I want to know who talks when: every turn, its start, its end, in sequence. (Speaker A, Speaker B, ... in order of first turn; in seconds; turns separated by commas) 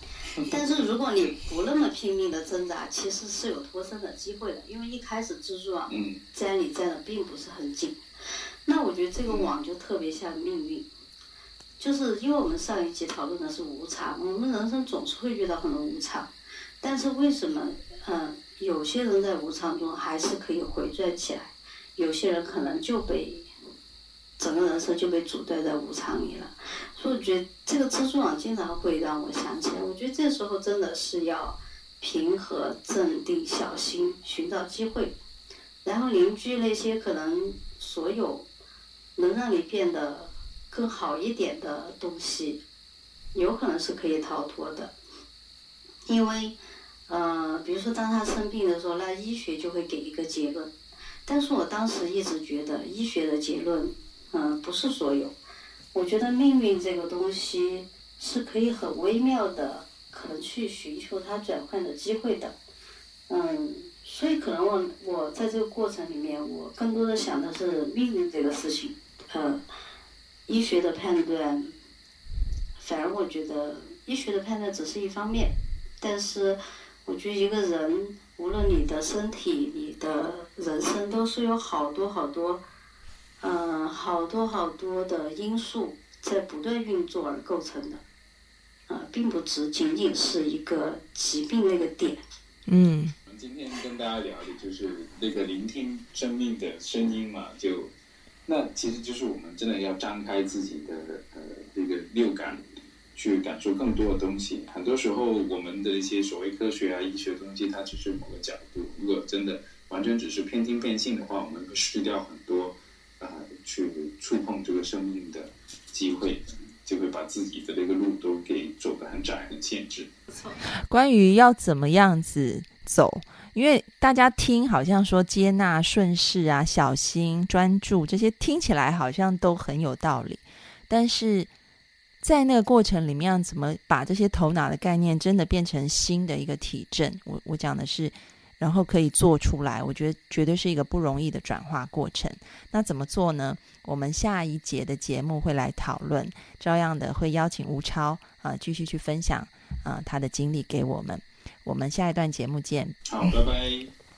Speaker A: 0.4-10.9, Speaker B: 5.9-6.2, Speaker B: 9.2-9.5, Speaker A: 11.8-23.5, Speaker A: 24.4-35.1, Speaker A: 35.8-38.5, Speaker A: 39.1-42.6, Speaker A: 43.3-44.9, Speaker A: 46.0-50.7, Speaker A: 51.2-55.3, Speaker A: 55.9-62.6, Speaker A: 63.3-69.6, Speaker A: 70.5-71.7, Speaker A: 72.8-82.6, Speaker A: 83.4-88.0, Speaker A: 88.9-92.2, Speaker C: 92.7-93.1, Speaker B: 93.3-97.9, Speaker B: 98.5-102.6, Speaker B: 103.1-120.1, Speaker C: 120.6-131.5, Speaker C: 132.2-153.0, Speaker B: 153.1-153.9